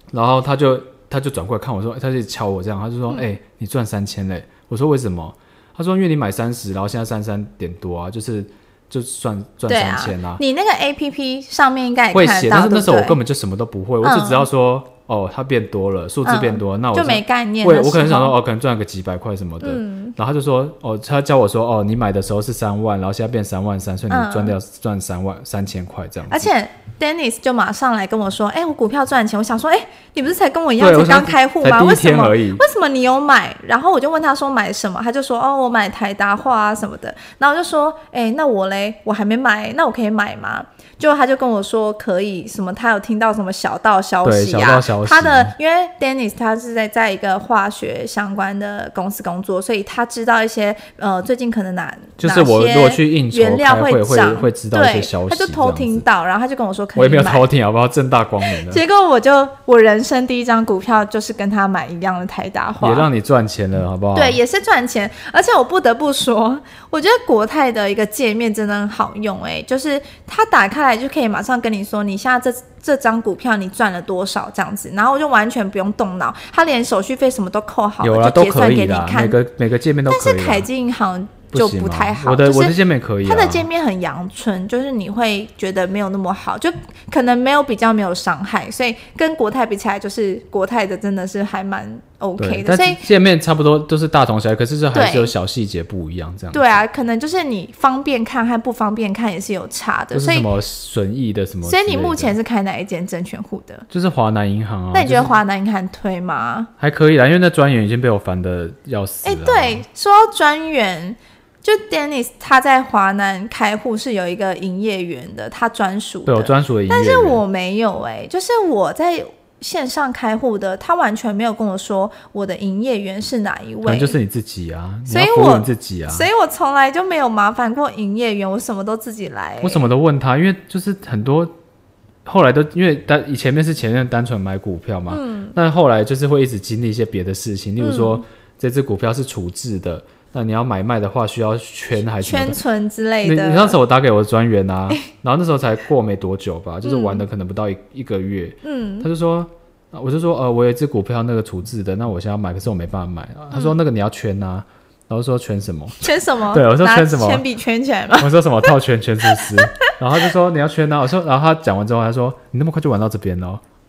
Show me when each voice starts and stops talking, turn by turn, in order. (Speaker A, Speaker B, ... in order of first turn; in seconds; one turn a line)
Speaker A: 0.1-10.4
Speaker B: 9.7-13.2
Speaker A: 12.1-26.5
Speaker B: 14.0-14.5
Speaker B: 16.2-18.3
Speaker B: 19.6-20.1
Speaker B: 24.1-24.5
Speaker B: 26.3-57.5
Speaker A: 30.8-32.6
Speaker A: 44.2-45.5
Speaker A: 52.2-56.0
Speaker A: 57.0-58.8
Speaker B: 58.5-63.1
Speaker A: 62.8-64.4
Speaker B: 64.1-79.3
Speaker A: 78.0-80.7
Speaker B: 80.1-93.0
Speaker A: 81.5-83.7
Speaker A: 92.4-96.8
Speaker B: 94.9-95.3
Speaker B: 96.5-100.5
Speaker A: 100.1-102.3
Speaker B: 101.6-103.8
Speaker A: 103.9-105.3
Speaker B: 104.9-106.7
Speaker A: 106.8-109.8
Speaker B: 109.2-124.2
Speaker A: 116.2-117.4
Speaker A: 123.8-126.3
Speaker B: 125.1-129.8
Speaker A: 129.6-131.5
Speaker A: 132.2-142.6
Speaker B: 135.1-135.5
Speaker B: 137.8-138.2
Speaker B: 142.2-143.8
Speaker A: 143.2-157.4
Speaker B: 146.8-147.2
Speaker B: 148.6-149.1
Speaker B: 156.0-158.3
Speaker A: 158.2-163.6
Speaker B: 159.3-159.8